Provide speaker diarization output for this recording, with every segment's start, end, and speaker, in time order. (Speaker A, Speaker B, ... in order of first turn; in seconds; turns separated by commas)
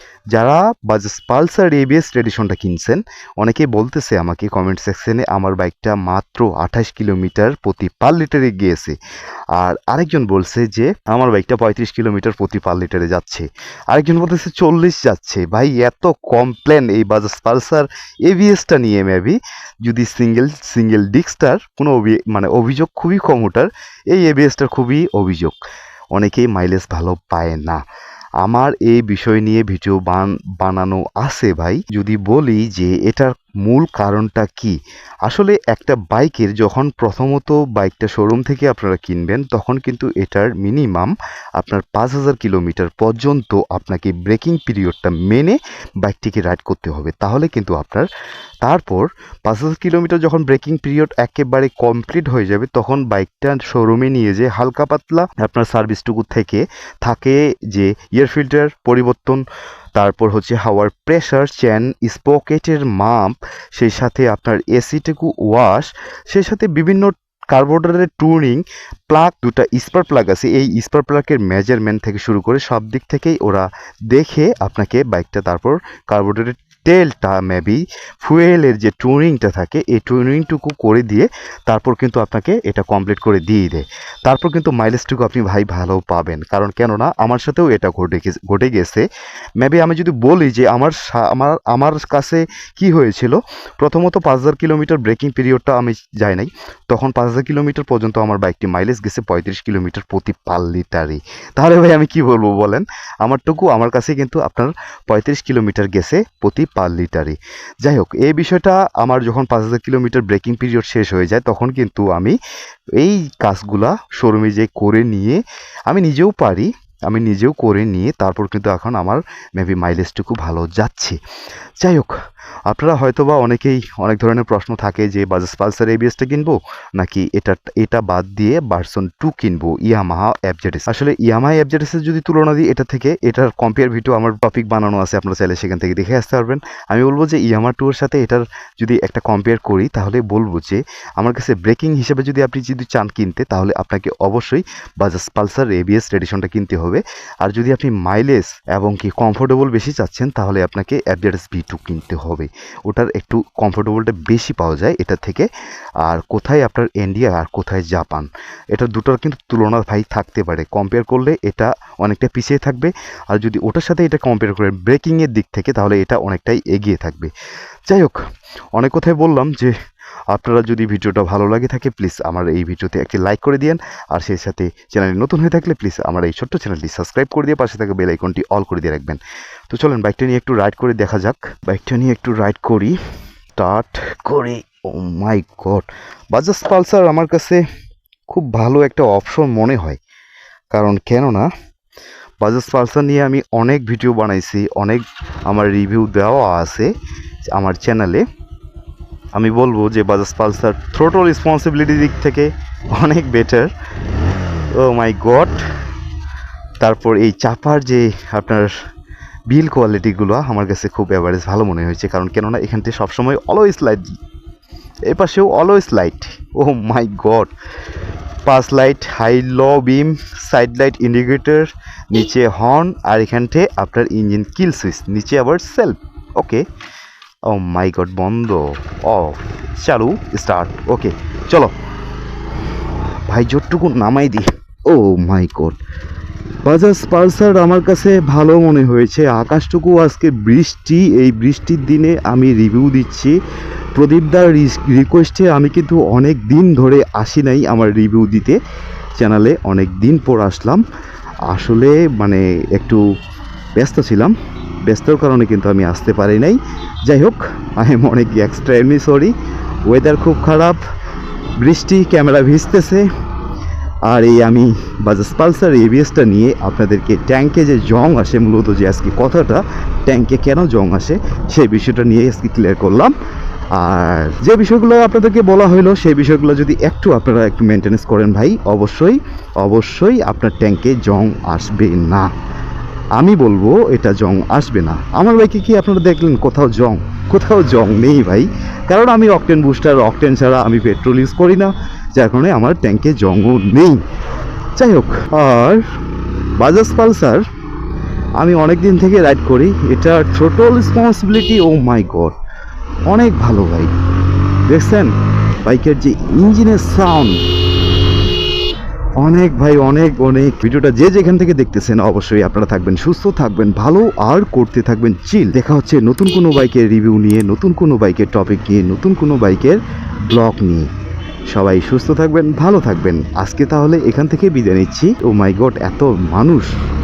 Speaker A: 0.3-9.0, Speaker A: 9.5-25.6, Speaker A: 26.1-27.8, Speaker A: 28.4-48.1, Speaker A: 48.6-59.4, Speaker A: 60.0-89.1, Speaker A: 89.6-112.4, Speaker A: 113.0-121.2, Speaker A: 121.8-122.2, Speaker A: 122.7-155.5, Speaker A: 156.0-167.3, Speaker A: 167.9-168.2, Speaker A: 168.7-169.8, Speaker A: 170.3-183.0, Speaker A: 183.6-187.6, Speaker A: 188.3-190.0, Speaker A: 190.7-191.5, Speaker A: 192.4-196.9, Speaker A: 197.5-198.2, Speaker A: 199.3-203.7, Speaker A: 204.8-205.6, Speaker A: 206.8-208.7, Speaker A: 209.5-214.1, Speaker A: 215.1-217.5, Speaker A: 218.4-226.7, Speaker A: 227.5-231.7, Speaker A: 233.3-235.8, Speaker A: 236.7-243.4, Speaker A: 243.9-248.6, Speaker A: 249.2-250.8, Speaker A: 251.5-253.1, Speaker A: 253.8-259.4, Speaker A: 259.9-260.8, Speaker A: 261.6-263.1, Speaker A: 264.1-273.2, Speaker A: 273.7-282.3, Speaker A: 283.1-294.0, Speaker A: 294.8-295.9, Speaker A: 296.6-297.4, Speaker A: 298.4-302.4, Speaker A: 303.1-303.9, Speaker A: 304.7-307.4, Speaker A: 309.2-320.9, Speaker A: 321.5-326.7